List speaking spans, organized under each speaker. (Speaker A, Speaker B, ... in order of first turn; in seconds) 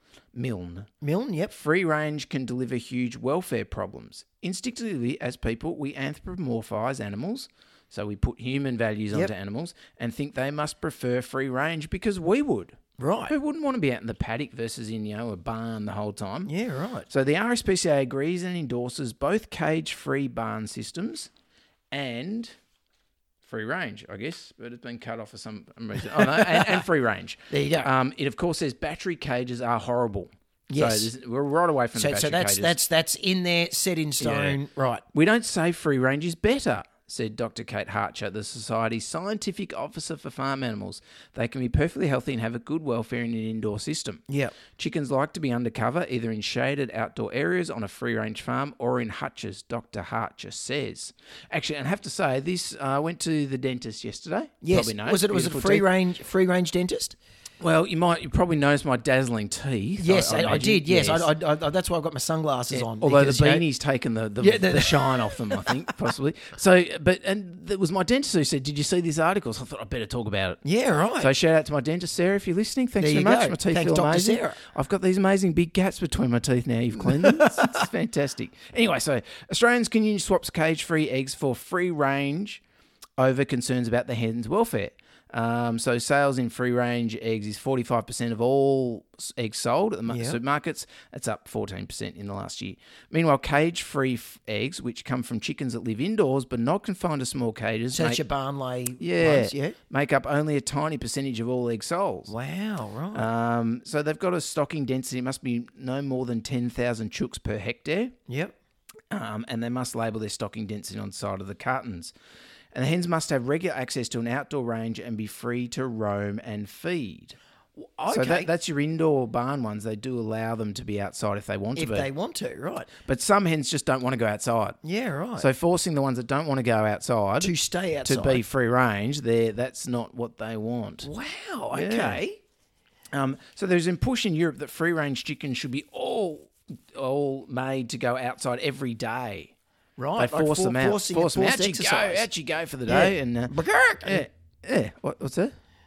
Speaker A: 0.3-0.9, 1.5-16.5, 17.1-21.3, 21.9-22.5, 23.4-32.8, 34.2-34.6, 35.1-44.2, 44.7-55.9, 57.6-61.3, 62.7-70.6, 71.2-82.6, 83.2-98.2, 99.0-102.3, 103.1-108.1, 109.1-112.1, 112.7-117.4, 118.1-122.1, 123.0-124.8, 125.4-127.5, 128.0-131.1, 131.7-132.2, 133.1-139.5, 140.2-145.5
Speaker B: 1.0-1.5, 13.0-13.3, 16.4-17.1, 26.2-26.8, 27.5-27.9, 30.7-31.1, 31.9-35.0, 44.3-44.5, 54.6-57.1, 60.0-63.6, 64.4-65.7, 70.6-71.3, 73.0-74.6, 77.2-77.8, 90.1-90.4, 97.9-99.8, 102.3-103.3, 108.3-108.5, 117.8-118.5, 121.7-122.9, 124.8-125.5, 127.4-128.4, 131.0-132.4, 140.0-142.3, 142.9-144.2